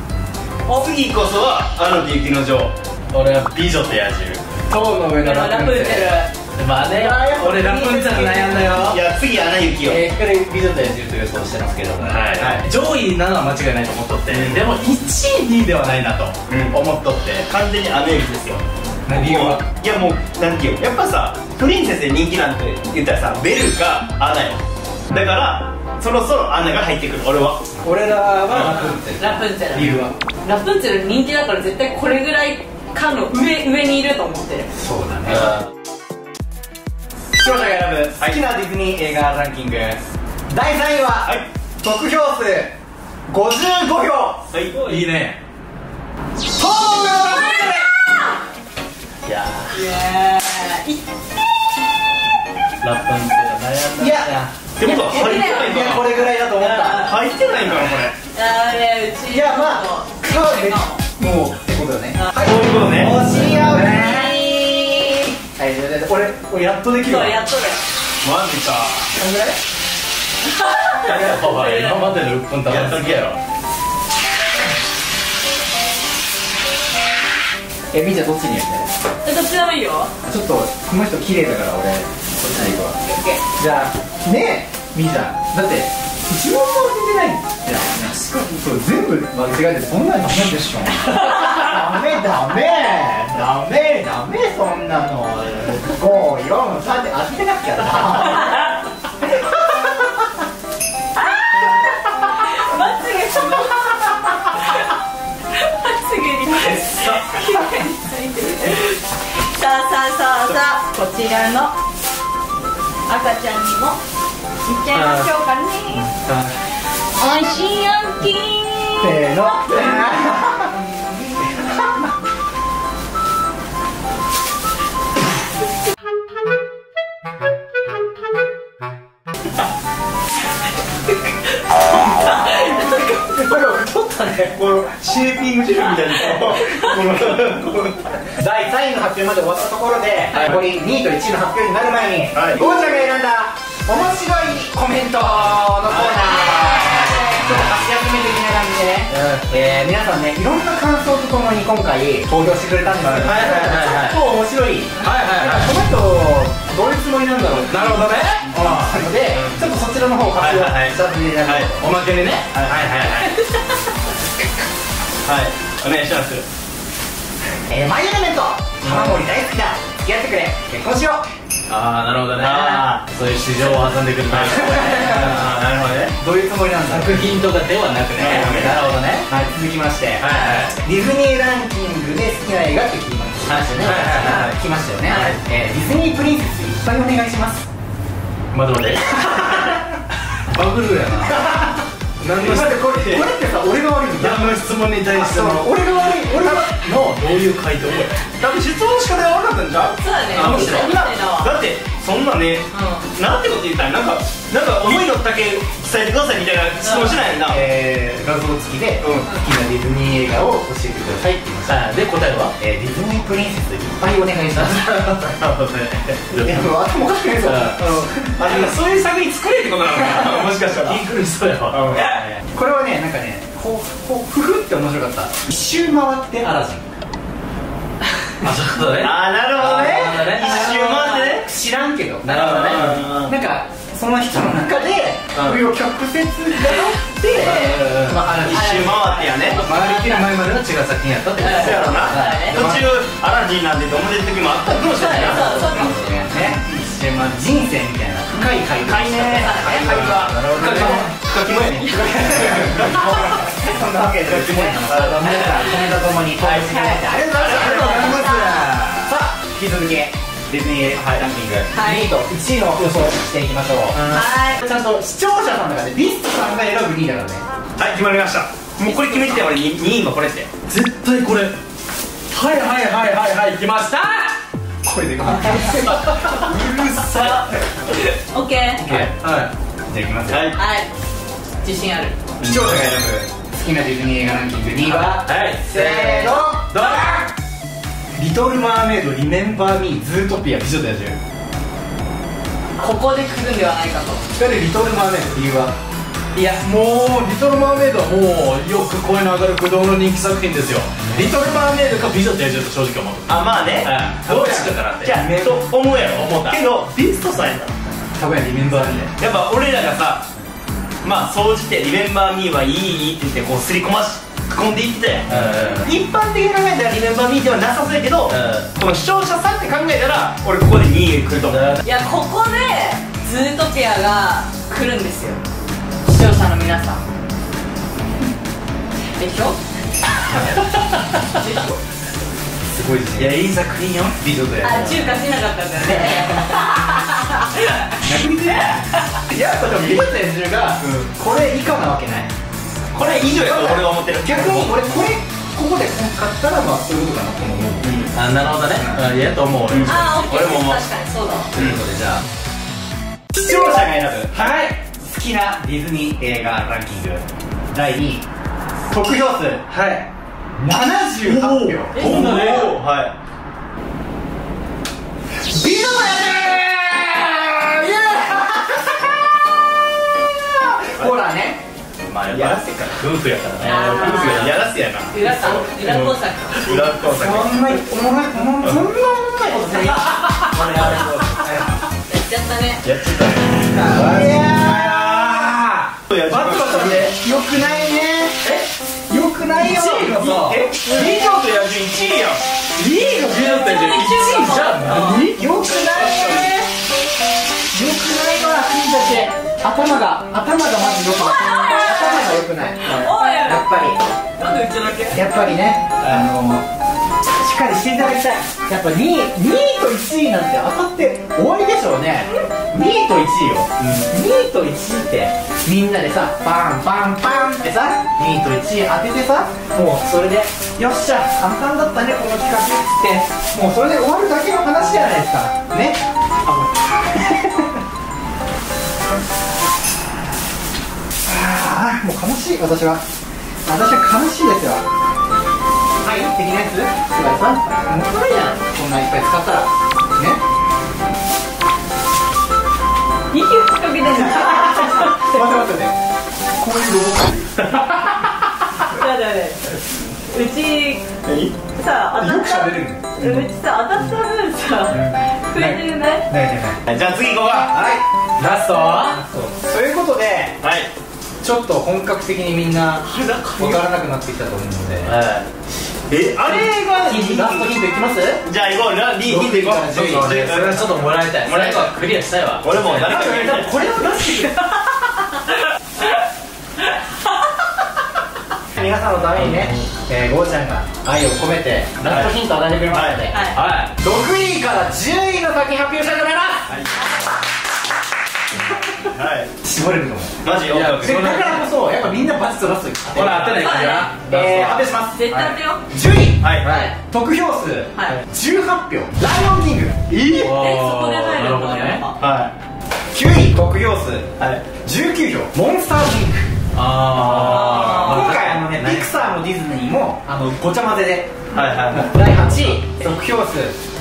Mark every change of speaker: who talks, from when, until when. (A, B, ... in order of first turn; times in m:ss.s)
0:00.7-0:02.7 A
0:03.1-0:04.4 B
0:04.7-0:06.2 C
0:05.2-0:06.3 D
0:06.6-0:09.0 B
0:06.9-0:09.0 C
0:08.7-0:10.0 A
0:09.8-0:12.2 C
0:12.0-0:17.5 B
0:12.4-0:12.6 A
0:14.3-0:14.6 A
0:16.5-0:16.8 A
0:17.4-0:27.6 A
0:19.1-0:19.6 C
0:27.8-0:30.1 C
0:28.5-0:28.8 A
0:28.9-0:34.7 D
0:34.8-0:35.5 C
0:37.3-0:42.7 C
0:43.3-0:44.5 C
0:44.5-0:44.9 A
0:44.7-0:45.4 B
0:46.6-0:47.8 C
0:47.0-0:48.4 D
0:49.3-0:49.8 B
0:49.7-0:51.0 D
0:52.8-0:54.4 B
0:54.0-0:57.2 C
0:54.8-0:58.2 A
0:54.8-0:56.0 D
0:58.3-1:01.0 D
0:59.3-1:04.4 C
1:02.3-1:03.2 A
1:02.9-1:04.3 B
1:03.8-1:05.3 D
1:05.6-1:07.3 C
1:07.0-1:07.8 D
1:08.2-1:09.1 A
1:09.1-1:09.6 C
1:10.4-1:12.0 D
1:11.0-1:13.4 B
1:12.7-1:13.4 A
1:17.9-1:18.9 C
1:19.2-1:20.1 D
1:20.2-1:22.9 C
1:22.8-1:23.4 D
1:23.6-1:38.7 C
1:39.2-1:40.3 C
1:41.2-1:44.9 D
1:45.5-1:51.8 D
1:46.6-1:47.2 C
1:46.7-1:47.1 B
1:53.1-1:54.0 D
1:54.6-1:56.1 D
1:54.9-1:55.3 B
1:56.1-1:56.5 B
1:57.2-1:59.9 D
1:59.0-2:02.1 C
2:12.2-2:13.4 D
2:13.3-2:14.6 C
2:14.6-2:18.0 A
2:18.2-2:41.8 C
2:22.3-2:22.6 A
2:25.9-2:26.7 A
2:26.3-2:27.4 D
2:27.4-2:27.7 B
2:29.1-2:29.5 B
2:33.0-2:34.2 B
2:35.0-2:35.8 B
2:37.7-2:39.0 B
2:39.3-2:39.7 A
2:40.4-2:41.7 A
2:41.8-2:43.4 B
2:42.5-2:43.0 A
2:45.2-2:46.5 A
2:47.7-2:51.2 C
2:48.9-2:49.2 B
2:51.7-2:55.6 B
2:52.4-2:53.0 A
2:54.3-2:56.1 A
2:54.9-2:55.3 C
2:56.2-2:57.4 C
2:56.9-2:58.9 B
2:58.2-2:58.7 A
2:58.3-3:07.7 C
3:00.2-3:00.8 B
3:03.7-3:04.5 B
3:05.1-3:05.4 B
3:08.5-3:09.7 B
3:09.3-3:09.8 C
3:10.5-3:11.4 B
3:11.3-3:11.8 C
3:12.2-3:12.8 B
3:12.4-3:14.6 C
3:12.6-3:13.2 A
3:14.2-3:18.2 B
3:15.1-3:16.8 C
3:18.4-3:27.6 A
3:20.0-3:21.6 D
3:20.4-3:20.8 B
3:22.7-3:23.1 D
3:26.8-3:27.2 D
3:27.4-3:31.9 C
3:29.0-3:29.3 A
3:31.7-3:32.5 B
3:32.6-3:35.3 C
3:34.6-3:36.7 B
3:35.4-3:36.2 A
3:36.4-3:38.4 C
3:37.4-3:37.8 B
3:37.8-3:41.0 A
3:38.4-3:42.4 B
3:41.7-3:42.2 A
3:41.9-3:46.8 C
3:48.4-3:50.8 B
3:48.9-3:51.5 A
3:49.6-3:59.1 C
3:52.2-3:53.1 B
3:52.3-3:53.3 A
3:55.4-3:55.6 A
3:57.3-3:58.2 B
3:57.4-3:57.7 D
3:58.4-3:59.6 A
3:58.5-4:00.3 D
3:59.6-4:02.8 B
4:01.4-4:02.6 D
4:01.4-4:05.7 A
4:01.8-4:02.8 C
4:04.9-4:06.3 D
4:05.0-4:11.1 C
4:08.8-4:15.6 A
4:09.2-4:10.1 D
4:09.7-4:11.1 B
4:11.8-4:12.4 D
4:11.8-4:18.4 C
4:16.4-4:18.2 A
4:17.5-4:19.1 B
4:17.7-4:18.6 D
4:19.0-4:24.0 C
4:21.0-4:21.2 A
4:21.7-4:22.1 D
4:24.1-4:24.6 D
4:24.6-4:27.4 C
4:27.8-4:30.5 A
4:30.7-4:31.6 B
4:32.3-4:34.4 B
4:34.8-4:37.4 C
4:35.6-4:37.5 A
4:38.1-4:38.8 D
4:38.8-4:39.1 C
4:38.9-4:39.5 B
4:39.9-4:40.5 C
4:40.3-4:40.6 A
4:40.6-4:40.9 D
4:41.6-4:42.2 D
4:42.4-4:46.7 C
4:44.8-4:47.3 B
4:48.2-4:51.2 C
4:52.8-4:54.3 D
4:54.4-4:55.8 C
4:56.4-5:06.6 B
5:01.1-5:01.4 C
5:03.3-5:03.9 A
5:04.2-5:05.5 C
5:05.0-5:07.7 A
5:08.2-5:09.1 C
5:09.2-5:10.3 A
5:11.0-5:21.7 A
5:15.3-5:15.9 B
5:18.3-5:18.7 B
5:21.5-5:21.8 B
5:21.8-5:25.4 D
5:26.0-5:27.1 D
5:29.2-5:29.6 D
5:31.4-5:31.7 D
5:32.6-5:33.4 C
5:33.2-5:34.2 B
5:34.2-5:35.2 C
5:34.6-5:38.1 D
5:35.8-5:36.7 C
5:38.0-5:42.3 C
5:39.7-5:40.0 A
5:42.9-5:44.7 A
5:43.0-5:48.1 C
5:47.8-5:48.1 A
5:48.1-5:50.2 B
5:48.7-5:49.0 C
5:49.7-5:50.8 A
5:49.8-5:51.5 D
5:51.6-5:52.2 C
5:53.3-5:58.2 C
5:54.3-5:54.8 B
5:58.9-5:59.6 C
5:59.7-6:00.1 B
6:00.6-6:02.6 C
6:01.2-6:03.1 A
6:01.9-6:02.8 B
6:05.4-6:09.2 C
6:10.5-6:11.6 C
6:12.0-6:14.7 B
6:12.3-6:13.0 A
6:13.6-6:17.7 A
6:13.6-6:14.6 D
6:15.1-6:16.8 D
6:17.1-6:21.6 C
6:20.4-6:21.8 A
6:22.1-6:22.8 D
6:22.8-6:23.7 A
6:23.7-6:25.6 C
6:23.8-6:27.2 B
6:26.1-6:27.0 A
6:26.6-6:28.5 C
6:28.4-6:28.7 B
6:29.1-6:31.2 C
6:29.6-6:30.6 B
6:30.8-6:32.4 A
6:32.8-6:35.4 B
6:33.3-6:35.3 D
6:35.3-6:36.5 C
6:36.0-6:36.6 B
6:37.7-6:44.0 C
6:41.1-6:43.7 D
6:44.4-6:45.6 D
6:45.1-6:46.7 C
6:47.2-7:06.0 C
7:07.1-7:07.8 C
7:11.3-7:13.0 C
7:13.7-7:14.8 C
7:16.0-7:20.4 C
7:23.3-7:25.4 D
7:24.0-7:26.0 C
7:26.6-7:28.2 C
7:28.9-7:29.7 D
7:30.3-7:31.0 D
7:31.2-7:31.6 A
7:31.8-7:36.3 D
7:32.2-7:33.4 C
7:34.9-7:36.8 C
7:36.9-7:37.7 A
7:37.4-7:38.0 C
7:38.4-7:39.2 B
7:39.1-7:40.6 C
7:40.6-7:40.9 A
7:41.4-7:43.1 C
7:43.0-7:43.8 D
7:43.6-7:45.1 C
7:45.1-7:45.4 A
7:45.1-7:45.4 B
7:46.1-7:47.7 A
7:46.4-7:48.4 C
7:48.4-7:51.9 A
7:49.2-7:50.5 C
7:49.9-7:53.2 B
7:52.6-7:53.7 A
7:52.9-7:54.6 C
7:58.7-8:03.4 C
7:59.4-7:59.9 B
8:02.0-8:02.3 A
8:02.9-8:03.3 A
8:03.3-8:03.6 D
8:03.5-8:04.0 B
8:04.0-8:06.8 C
8:06.7-8:07.1 A
8:09.1-8:09.5 A
8:09.6-8:10.4 C
8:10.4-8:11.4 A
8:10.7-8:11.7 B
8:11.0-8:13.6 C
8:13.1-8:15.6 B
8:13.1-8:13.6 A
8:13.6-8:14.1 D
8:14.2-8:15.4 C
8:15.1-8:15.8 D
8:15.9-8:20.1 C
8:16.4-8:16.7 A
8:16.6-8:16.9 B
8:16.6-8:17.0 D
8:18.0-8:18.2 D
8:20.1-8:20.4 A
8:20.4-8:22.0 B
8:20.5-8:22.2 D
8:22.2-8:22.5 A
8:23.1-8:26.5 C
8:24.4-8:24.6 A
8:26.7-8:29.1 B
8:27.3-8:27.7 A
8:27.4-8:28.3 D
8:27.5-8:33.8 C
8:31.5-8:32.1 A